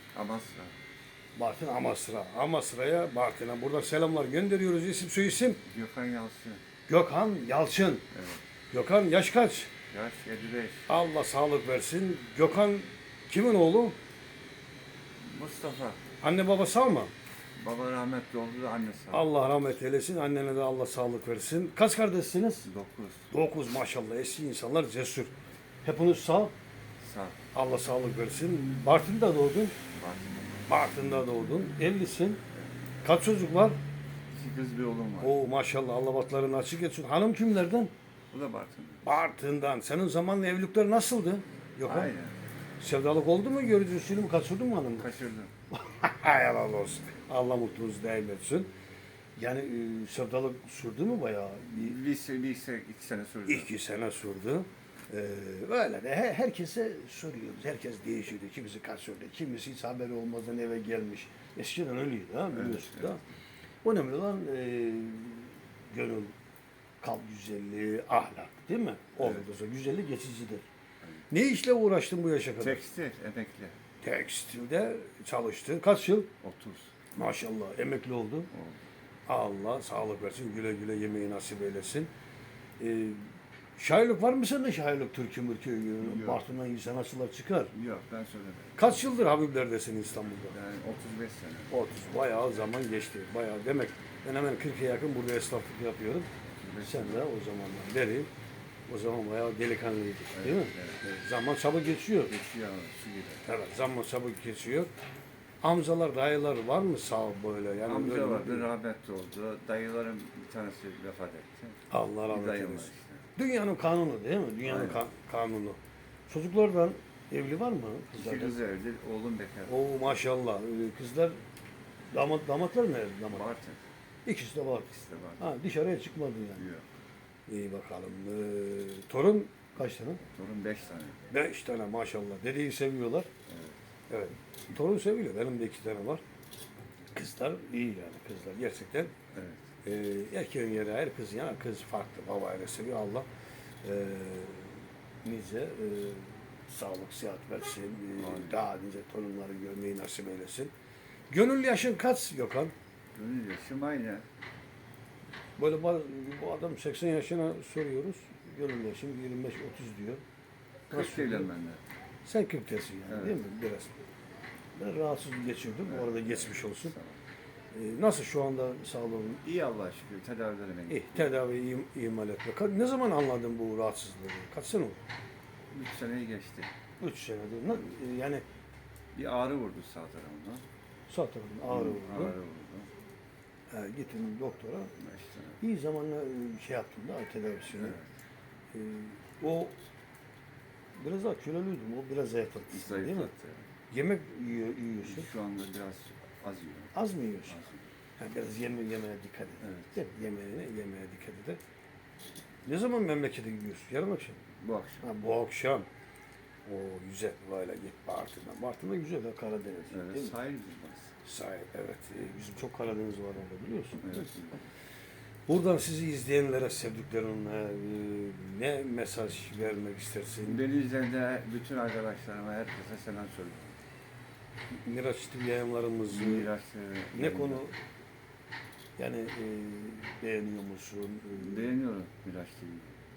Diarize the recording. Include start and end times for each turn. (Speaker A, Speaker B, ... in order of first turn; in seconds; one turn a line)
Speaker A: 0.1-0.7
Speaker B: 1.4-5.6
Speaker A: 5.7-6.6
Speaker B: 6.9-8.0
Speaker A: 8.1-8.4
Speaker B: 8.7-9.7
Speaker A: 9.9-10.9
Speaker B: 10.9-14.0
Speaker A: 15.2-16.0
Speaker B: 16.2-17.1
Speaker A: 17.6-19.3
Speaker B: 19.1-22.7
Speaker A: 22.6-23.3
Speaker B: 23.3-25.3
Speaker B: 25.8-26.5
Speaker A: 27.0-27.4
Speaker B: 27.5-29.8
Speaker A: 29.9-30.7
Speaker B: 30.7-32.4
Speaker B: 33.0-33.8
Speaker A: 34.3-35.4
Speaker B: 35.2-37.9
Speaker A: 38.3-39.2
Speaker B: 39.0-42.1
Speaker A: 41.8-42.4
Speaker B: 42.8-45.1
Speaker A: 45.0-45.5
Speaker B: 45.7-48.7
Speaker B: 49.4-52.0
Speaker A: 51.7-53.7
Speaker B: 53.5-63.2
Speaker A: 62.5-63.2
Speaker B: 63.8-66.3
Speaker B: 67.0-70.7
Speaker A: 69.2-69.5
Speaker B: 71.3-72.8
Speaker A: 72.6-73.8
Speaker B: 74.0-76.3
Speaker A: 76.4-76.9
Speaker B: 77.1-78.5
Speaker A: 78.5-78.8
Speaker B: 79.3-82.1
Speaker B: 82.8-83.2
Speaker B: 83.8-87.7
Speaker A: 86.0-86.4
Speaker A: 87.7-88.8
Speaker B: 88.8-90.5
Speaker A: 90.5-91.7
Speaker B: 91.7-96.3
Speaker A: 96.6-97.2
Speaker B: 96.8-98.3
Speaker B: 98.9-102.3
Speaker A: 100.3-101.0
Speaker A: 102.3-103.4
Speaker B: 103.5-104.9
Speaker B: 105.6-108.7
Speaker A: 107.8-113.3
Speaker B: 111.9-115.8
Speaker A: 114.6-115.0
Speaker B: 116.3-118.6
Speaker A: 118.1-119.8
Speaker B: 119.7-121.3
Speaker B: 122.1-123.5
Speaker A: 123.3-123.8
Speaker B: 124.3-126.7
Speaker A: 124.9-125.5
Speaker A: 126.6-126.8
Speaker B: 127.5-130.2
Speaker A: 130.3-131.2
Speaker B: 131.3-133.3
Speaker A: 133.5-133.8
Speaker B: 134.1-136.2
Speaker B: 137.1-139.1
Speaker A: 139.3-139.7
Speaker B: 139.8-143.3
Speaker B: 143.8-150.7
Speaker A: 148.2-148.6
Speaker B: 151.3-152.7
Speaker A: 153.1-154.2
Speaker B: 155.6-160.2
Speaker A: 160.9-161.8
Speaker B: 160.9-161.5
Speaker B: 162.2-163.9
Speaker A: 163.1-163.4
Speaker B: 164.8-166.9
Speaker A: 165.8-167.2
Speaker B: 167.7-169.4
Speaker A: 169.4-171.4
Speaker B: 170.9-175.0
Speaker A: 175.7-176.7
Speaker B: 177.0-178.4
Speaker A: 179.1-180.6
Speaker B: 181.1-182.3
Speaker A: 181.7-182.9
Speaker B: 183.7-184.9
Speaker A: 185.0-185.6
Speaker B: 185.6-188.0
Speaker A: 187.7-188.1
Speaker B: 188.7-189.8
Speaker B: 191.0-193.3
Speaker A: 192.7-193.7
Speaker B: 193.9-195.3
Speaker A: 195.0-197.9
Speaker B: 196.9-197.6
Speaker B: 198.2-201.6
Speaker A: 199.6-200.0
Speaker B: 202.7-204.4
Speaker A: 204.6-205.1
Speaker B: 205.0-205.9
Speaker B: 206.7-210.3
Speaker A: 209.9-211.1
Speaker B: 211.2-214.3
Speaker A: 214.0-214.7
Speaker B: 215.5-220.6
Speaker A: 220.4-223.8
Speaker B: 224.7-226.5
Speaker A: 226.1-227.7
Speaker B: 227.1-227.8
Speaker B: 229.0-231.7
Speaker A: 231.4-232.9